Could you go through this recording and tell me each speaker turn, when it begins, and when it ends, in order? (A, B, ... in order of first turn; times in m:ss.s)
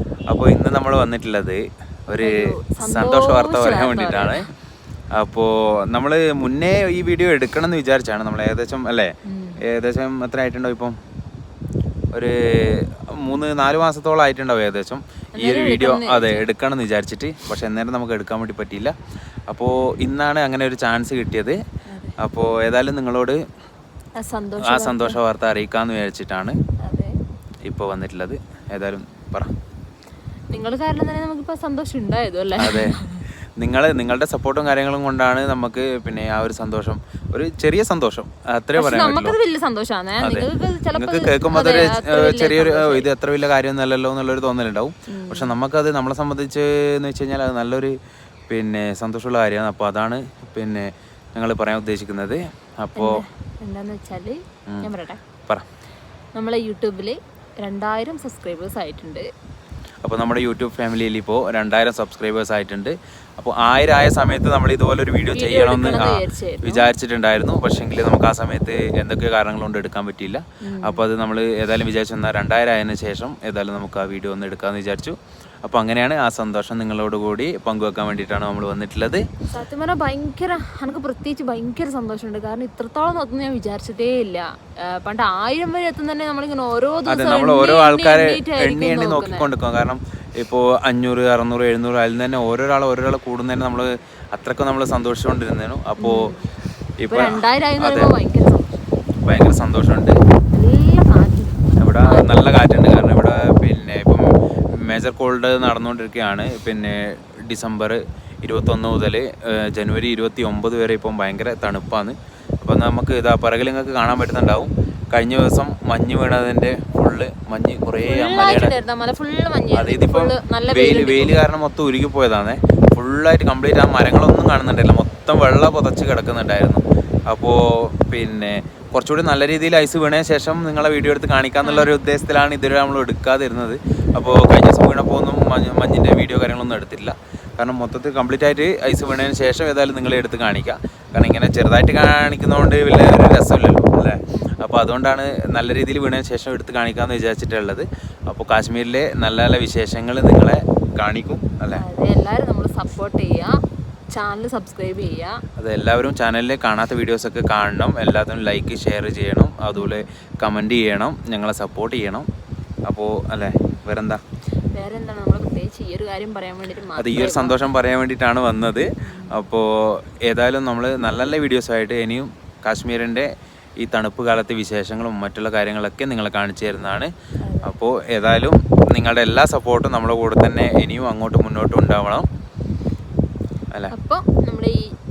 0:00.3-0:04.4 A
0:02.2-0:04.5 B
0:05.2-0:09.1 A
0:09.3-0:09.6 B
0:09.6-0:11.0 A
0:12.1-0:18.9 A
0:15.4-0:16.4 B
0:19.5-0:21.6 A
0:21.9-0:22.2 B
0:22.2-0:23.4 A
0:24.2-0:25.2 B
0:24.6-0:26.6 A
0:26.8-0:27.1 B
0:27.6-0:29.5 A
0:30.5-0:33.2 B
0:32.6-0:33.0 A
0:33.6-0:39.4 A
0:38.8-0:43.1 B
0:40.2-0:48.0 A
0:45.1-0:45.5 B
0:48.5-0:53.2 A
0:53.0-0:55.2 B
0:56.4-0:59.2 B
1:00.0-1:19.2 A
1:05.3-1:06.9 B
1:10.6-1:11.0 B
1:19.5-1:29.5 B
1:27.1-1:36.3 A
1:36.0-1:36.4 B
1:37.0-1:38.1 A
1:37.1-1:38.7 B
1:39.2-1:40.2 A
1:40.5-1:42.4 B
1:41.8-1:58.7 A
1:58.0-2:01.3 B
1:59.7-2:31.8 A
2:11.6-2:11.9 B
2:31.7-2:33.5 B
2:34.1-2:35.4 B
2:35.6-2:42.3 A
2:42.9-2:44.2 A
2:44.7-2:47.6 B
2:47.0-2:53.3 A
2:49.0-2:49.4 B
2:53.8-2:57.1 A
2:57.5-2:57.7 B
2:57.6-3:02.2 A
3:03.9-3:04.8 B